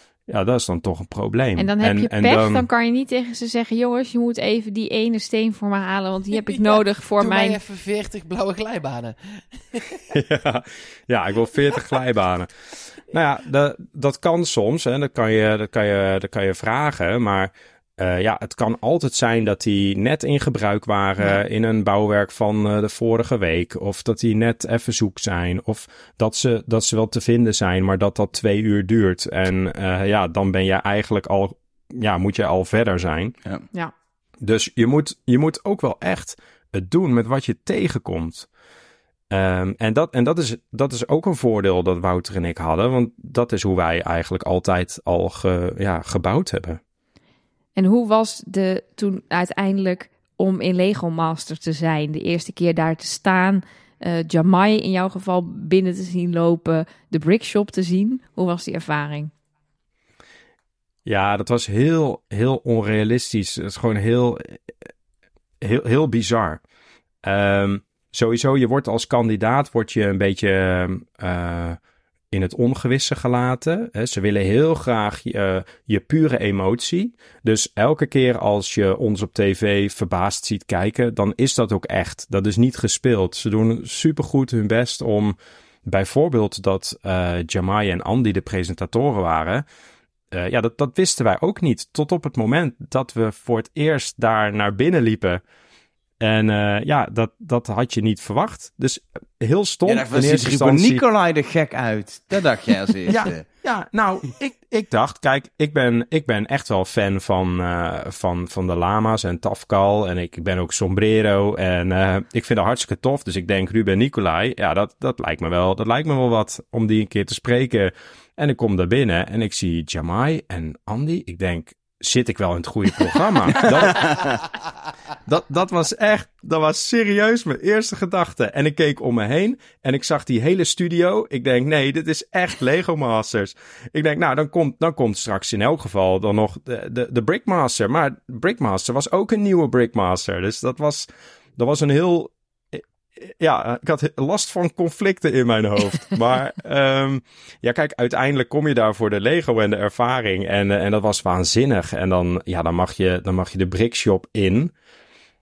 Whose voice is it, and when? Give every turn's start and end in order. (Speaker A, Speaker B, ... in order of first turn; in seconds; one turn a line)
Speaker A: 0.3-2.7
Speaker B: 1.6-7.6
Speaker C: 6.5-10.0
Speaker A: 10.1-33.4
Speaker A: 34.4-38.5
Speaker A: 39.3-46.8
Speaker B: 47.8-59.3
Speaker A: 61.1-64.6
Speaker A: 65.6-66.6
Speaker A: 67.2-71.8
Speaker A: 72.3-89.6
Speaker A: 90.3-95.4
Speaker A: 96.2-101.0
Speaker D: 99.9-103.4
Speaker A: 103.1-124.3
Speaker D: 123.7-124.4
Speaker A: 125.3-154.7